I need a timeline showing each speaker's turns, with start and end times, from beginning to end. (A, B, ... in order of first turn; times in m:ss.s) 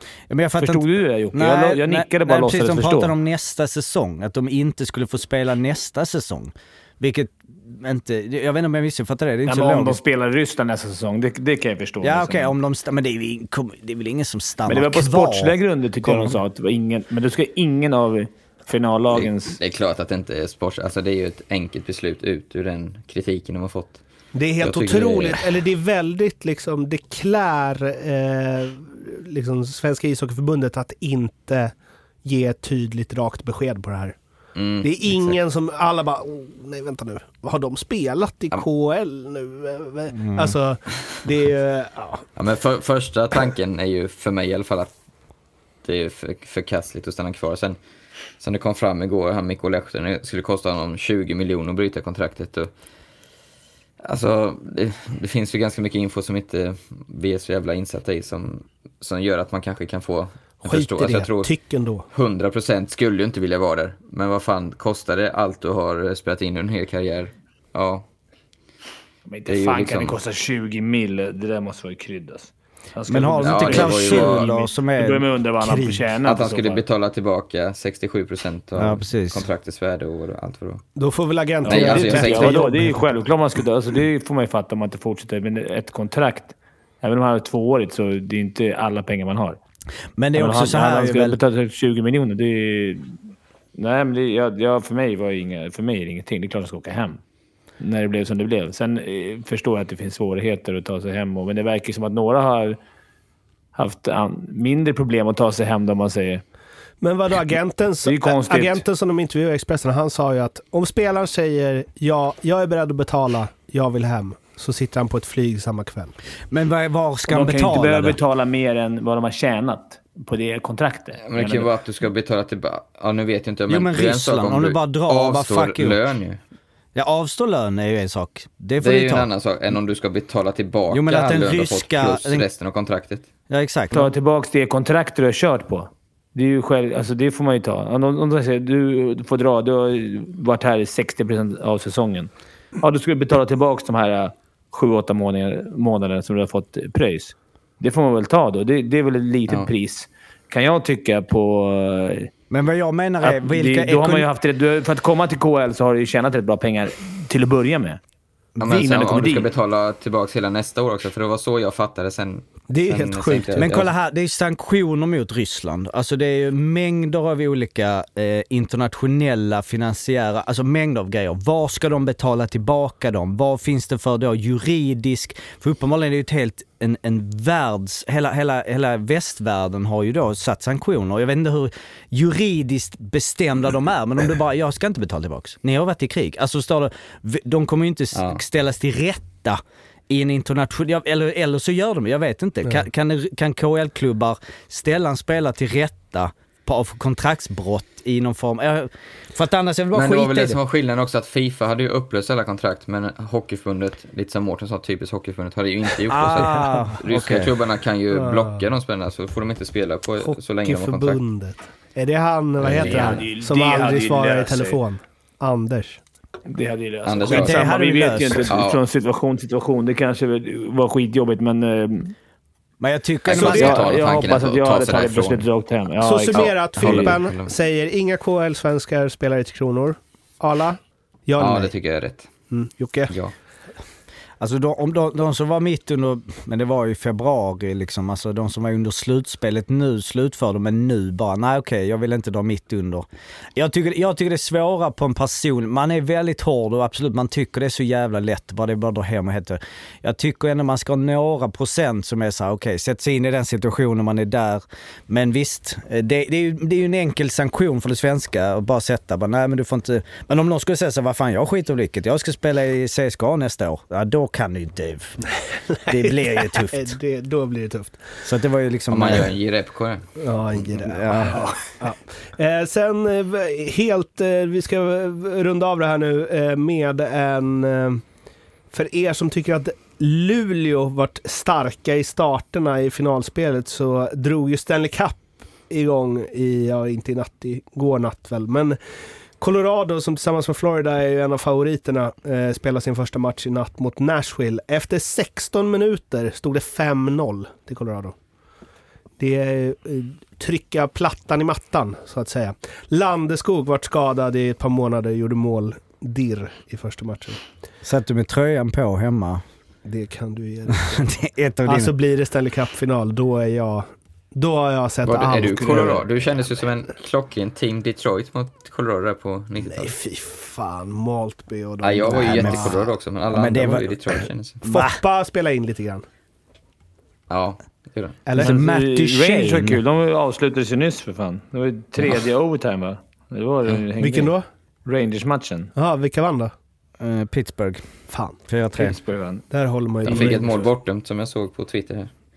0:00.3-0:10.0 A
0:00.6-0:03.1 B
0:09.4-0:12.6 B
0:12.0-0:16.4 A
0:14.7-0:19.6 B
0:19.1-0:24.0 C
0:24.3-0:31.7 D
0:24.6-0:25.4 C
0:32.2-0:34.2 D
0:34.6-0:35.4 C
0:34.8-0:42.3 D
0:40.2-0:40.5 A
0:42.4-0:44.9 C
0:45.8-0:47.8 C
0:48.4-0:52.7 C
0:54.0-1:01.5 C
1:00.6-1:02.0 D
1:02.1-1:08.1 C
1:09.3-1:16.8 B
1:09.5-1:10.2 C
1:13.1-1:15.2 A
1:13.4-1:14.5 C
1:15.7-1:16.0 D
1:16.2-1:20.8 C
1:18.8-1:19.4 A
1:21.0-1:23.0 D
1:21.6-1:22.7 C
1:21.6-1:29.6 B
1:30.2-1:31.4 A
1:30.3-1:33.2 B
1:33.8-1:37.2 B
1:37.8-1:42.8 B
1:43.8-1:46.4 B
1:47.0-1:56.2 D
1:48.0-1:48.8 B
1:56.5-1:58.2 A
1:57.3-2:01.7 B
2:01.2-2:06.4 C
2:03.7-2:06.0 A
2:07.0-2:09.3 A
2:08.8-2:13.3 C
2:10.9-2:12.4 A
2:13.5-2:14.1 A
2:13.9-2:32.3 B
2:32.5-2:34.3 A
2:33.2-2:38.0 B
2:38.6-2:43.9 C
2:38.6-2:39.5 B
2:42.7-2:43.7 D
2:43.6-3:20.6 A
3:08.1-3:08.4 C
3:19.9-3:31.2 C
3:26.1-3:27.5 A
3:28.1-3:28.6 D
3:30.2-3:36.0 D
3:32.6-3:33.3 C
3:32.7-3:34.8 B
3:36.5-3:42.1 B
3:37.0-3:37.7 C
3:37.3-3:38.5 A
3:38.5-3:38.8 C
3:42.8-3:43.8 A
3:43.3-3:43.8 D
3:43.3-3:45.5 C
3:43.4-3:47.2 B
3:46.0-3:51.7 D
3:46.6-3:47.5 C
3:51.4-3:52.3 C
3:52.5-3:53.1 D
3:53.1-3:53.3 C
3:54.4-4:25.3 A
4:25.7-4:28.1 D
4:25.9-4:27.0 A
4:28.2-4:29.3 A
4:28.9-4:30.0 C
4:30.2-4:38.0 D
4:30.8-4:31.4 A
4:38.7-4:48.8 D
4:49.4-4:58.1 D
4:59.2-5:07.4 D
5:07.8-5:09.4 A
5:09.8-5:11.1 D
5:10.8-5:11.9 A
5:11.7-5:16.0 D
5:15.0-5:19.9 C
5:19.6-5:22.9 D
5:21.8-5:24.6 C
5:22.1-5:22.8 A
5:23.3-5:25.0 A
5:24.7-5:26.0 D
5:27.3-5:28.2 C
5:28.3-5:28.6 D
5:28.3-5:29.8 A
5:28.4-5:35.7 B
5:34.0-5:34.5 D
5:35.8-5:36.5 D
5:37.0-5:37.9 A
5:38.1-5:38.4 D
5:38.4-5:39.0 A
5:38.8-5:39.5 B
5:39.5-5:40.6 D
5:40.0-5:42.1 C
5:40.1-5:40.4 B